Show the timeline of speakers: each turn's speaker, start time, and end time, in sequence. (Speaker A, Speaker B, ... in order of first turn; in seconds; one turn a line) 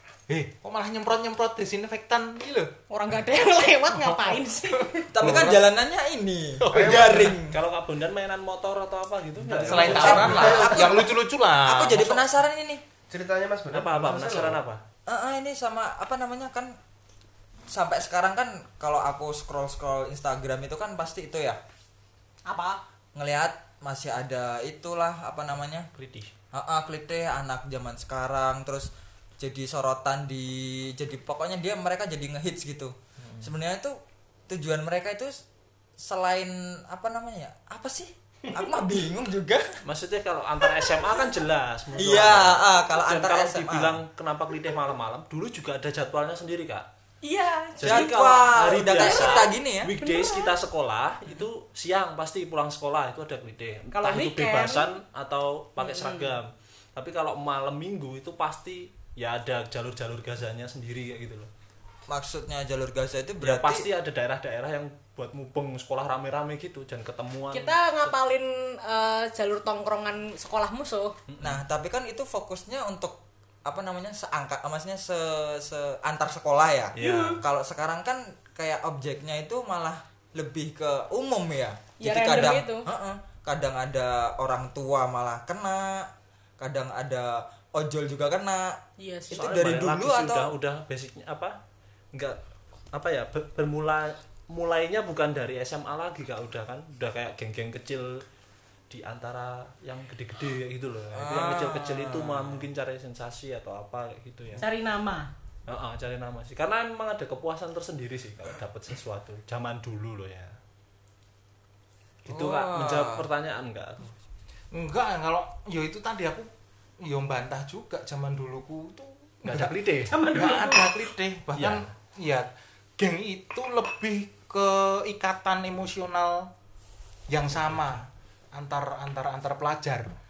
Speaker A: 0.3-2.7
Speaker B: 2.9-5.1
Speaker C: 5.1-7.6
Speaker D: 5.2-5.7
Speaker A: 6.6-7.3
Speaker D: 6.7-7.4
Speaker E: 6.8-10.7
Speaker C: 9.6-12.8
Speaker A: 9.6-12.3
Speaker D: 9.6-10.7
Speaker D: 13.1-14.6
Speaker E: 13.7-14.8
Speaker C: 15.1-16.8
Speaker C: 17.7-21.6
Speaker B: 22.5-22.8
Speaker C: 23.1-25.9
Speaker E: 25.9-26.3
Speaker C: 26.5-35.4
Speaker C: 36.0-39.7
Speaker E: 39.9-46.9
Speaker C: 42.0-44.0
Speaker B: 47.2-49.5
Speaker E: 47.8-61.5
Speaker C: 47.8-49.9
Speaker B: 50.0-50.5
Speaker B: 53.9-54.9
Speaker B: 55.8-56.4
Speaker C: 62.1-63.9
Speaker E: 63.4-68.1
Speaker B: 67.5-71.2
Speaker E: 71.3-71.6
Speaker C: 71.4-90.5
Speaker E: 77.0-77.4
Speaker B: 77.0-77.4
Speaker B: 82.0-82.9
Speaker B: 89.0-89.5
Speaker E: 89.3-91.5
Speaker E: 92.1-92.4
Speaker E: 92.9-98.2
Speaker E: 98.9-104.7
Speaker C: 101.1-102.7
Speaker B: 104.6-105.3
Speaker E: 105.7-110.5
Speaker E: 112.3-114.2
Speaker C: 112.3-113.3
Speaker A: 114.7-116.5
Speaker A: 117.0-126.5
Speaker E: 119.4-120.2
Speaker B: 120.1-121.0
Speaker E: 121.5-121.9
Speaker A: 127.3-130.1